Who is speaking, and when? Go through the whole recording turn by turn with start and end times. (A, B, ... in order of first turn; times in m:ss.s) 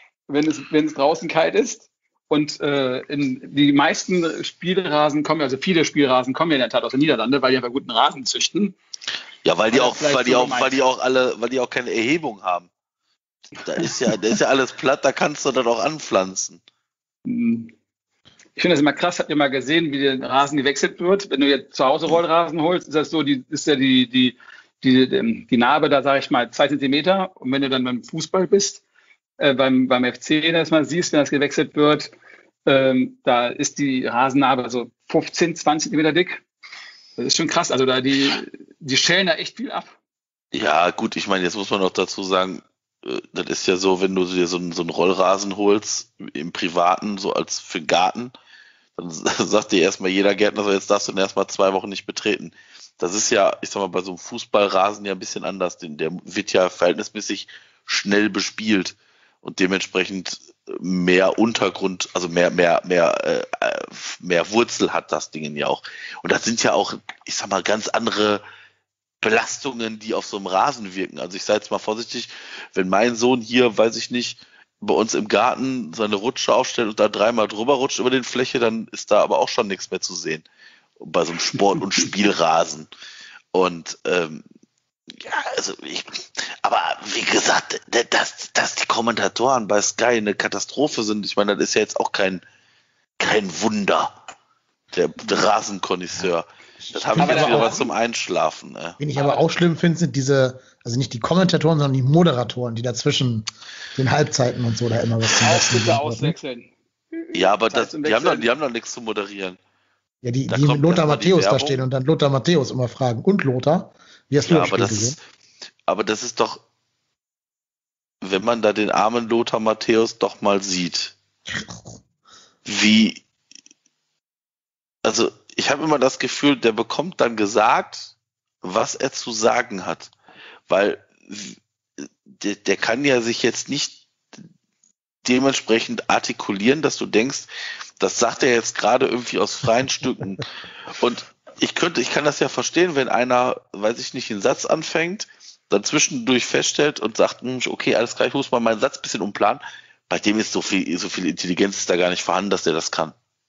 0:00.3-0:08.8 A
0:09.4-0:12.7 B
0:09.7-0:10.8 A
0:13.6-0:16.6 B
0:17.2-0:17.7 A
0:18.6-0:28.8 A
0:29.4-0:32.1 A
0:32.6-0:36.4 A
0:37.2-0:39.9 A
0:40.5-0:48.3 B
0:49.0-1:08.4 B
1:09.2-1:20.4 B
1:21.0-1:22.9 B
1:23.5-1:24.4 B
1:25.1-1:32.4 B
1:33.2-1:34.1 B
1:34.9-1:39.0 B
1:36.8-1:37.8 C
1:37.2-1:37.9 A
1:39.0-1:46.4 C
1:39.2-1:39.4 A
1:45.3-1:48.5 A
1:47.3-1:49.6 B
1:50.2-1:55.2 C
1:50.5-1:51.8 B
1:54.4-1:55.2 B
1:55.9-1:56.6 B
1:58.2-2:01.1 B
2:01.5-2:02.0 C
2:02.6-2:03.2 B
2:05.0-2:10.1 B
2:10.7-2:14.0 B
2:15.2-2:17.5 B
2:18.0-2:33.1 B